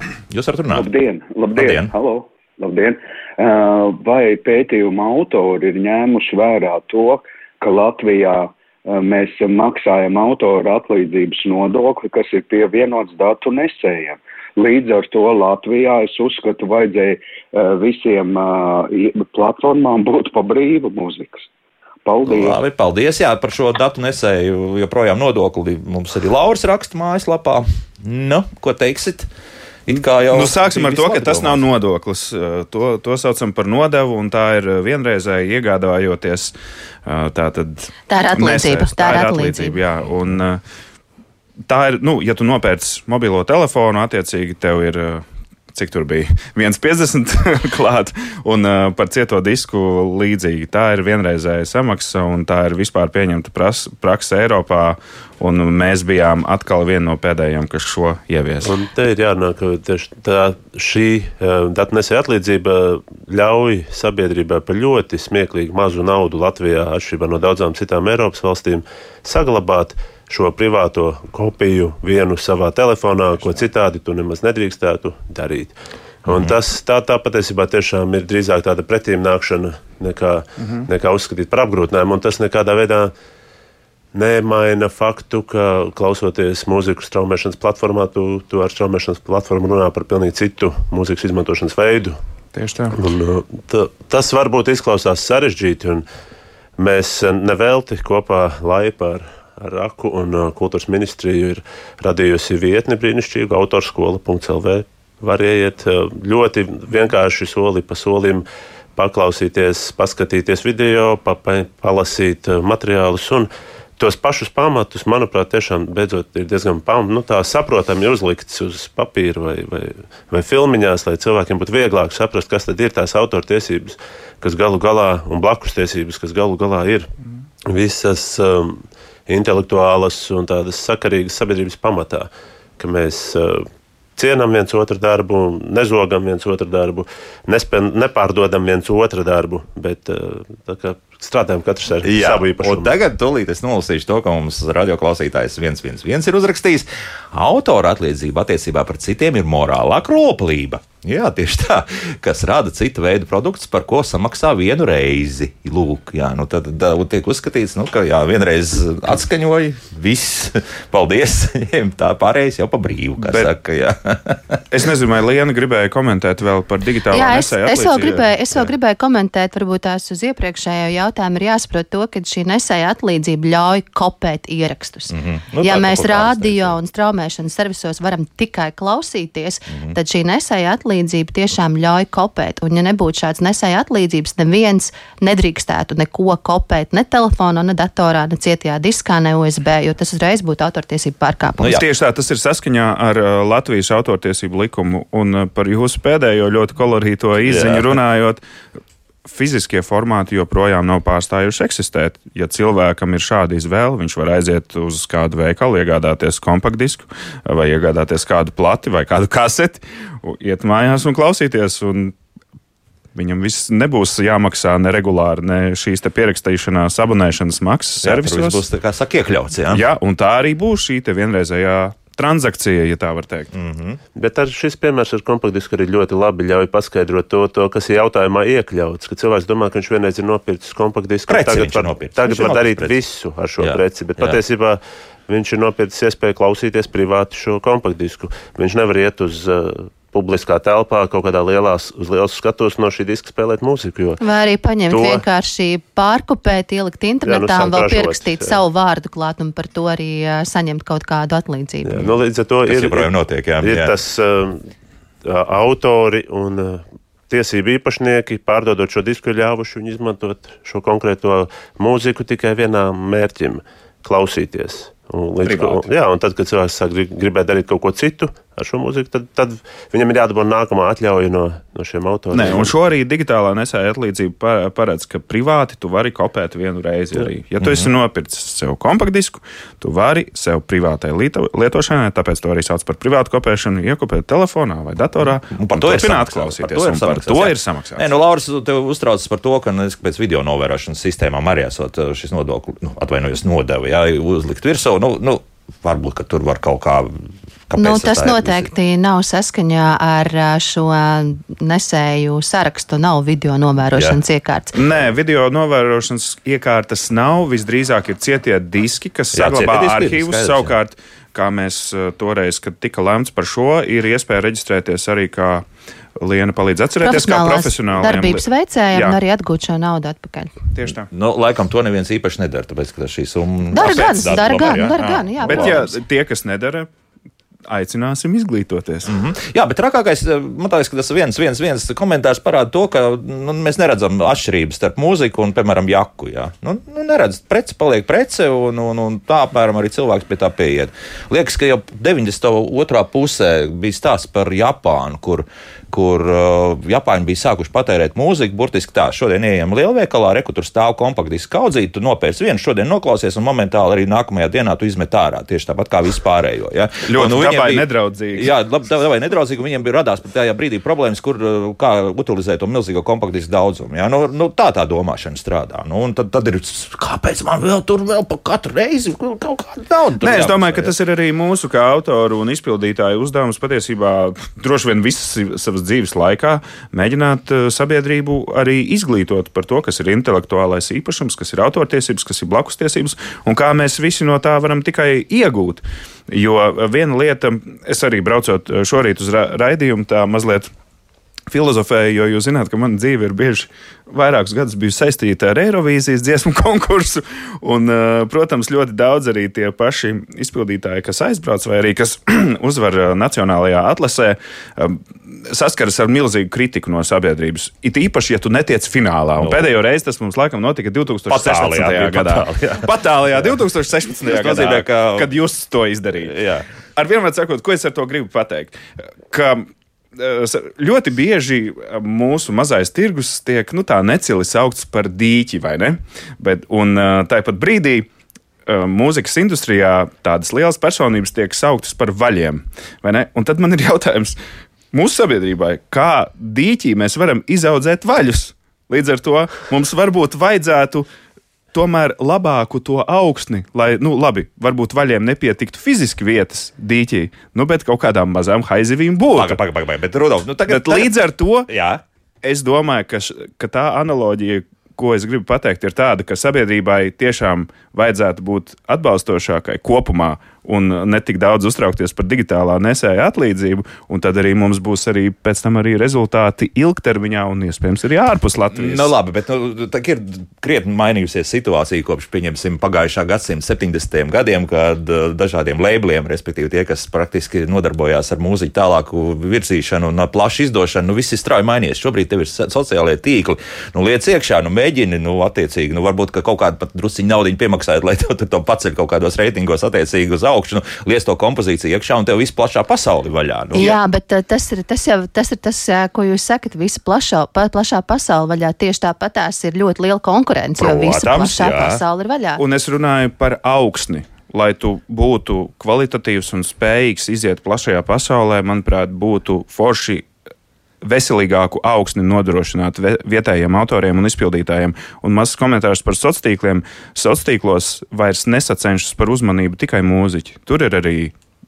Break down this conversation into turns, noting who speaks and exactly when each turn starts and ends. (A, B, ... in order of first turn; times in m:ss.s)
0:00.3-0:00.9 A
0:00.7-0:21.5 B
0:01.5-0:01.9 A
0:22.0-0:22.6 B
0:22.3-0:29.3 A
0:29.9-0:31.6 A
0:29.9-0:36.5 C
0:37.1-0:40.6 C
0:38.1-0:39.8 D
0:41.7-0:58.8 C
0:58.6-1:23.1 E
1:16.3-1:16.6 A
1:24.1-1:32.2 E
1:32.5-1:33.0 C
1:32.9-1:36.0 E
1:36.8-2:07.1 E
2:07.7-2:23.0 E
2:22.0-2:44.6 A
2:43.2-2:43.5 C
2:44.7-2:48.2 C
2:47.1-3:11.8 D
2:47.9-2:48.6 A
2:55.1-2:56.8 A
2:59.7-3:00.0 A
3:11.6-3:18.4 C
3:17.5-3:18.0 A
3:19.3-3:32.2 C
3:33.1-3:38.6 C
3:38.0-3:39.8 A
3:39.7-3:43.5 C
3:43.5-3:44.0 A
3:44.2-4:04.2 E
3:51.3-3:53.0 A
3:53.6-3:54.4 A
4:04.2-4:12.1 D
4:04.9-4:05.2 E
4:07.2-4:08.6 E
4:11.8-4:13.1 E
4:12.7-4:14.0 A
4:13.6-4:14.7 E
4:15.2-4:32.7 E
4:25.5-4:25.8 C
4:32.3-4:48.0 C
4:37.6-4:37.9 A
4:45.5-4:58.7 A
4:57.8-5:04.8 D
5:04.8-5:15.7 C
5:09.3-5:10.7 A
5:16.2-5:19.2 C
5:17.0-5:20.6 D
5:20.8-5:21.1 C
5:21.0-5:25.8 A
5:23.7-5:26.0 D
5:25.4-5:26.9 C
5:27.7-5:29.1 C
5:29.1-6:10.9 A
5:57.1-5:58.5 C
6:10.2-6:30.7 C
6:31.5-6:56.4 C
6:49.4-6:49.7 A
6:51.3-6:52.9 A
6:54.2-6:55.4 A
6:56.2-6:56.7 A
6:57.0-6:58.8 C
6:59.3-7:08.1 C
7:08.7-7:14.4 C
7:14.9-7:21.1 C
7:21.7-7:29.6 C
7:29.3-7:31.2 A
7:30.7-7:31.7 C
7:31.7-7:32.0 A
7:32.4-7:49.1 C
7:48.7-8:14.0 A
8:13.7-8:22.6 D
8:20.8-8:22.0 A
8:22.6-8:30.3 C
8:31.0-8:41.3 C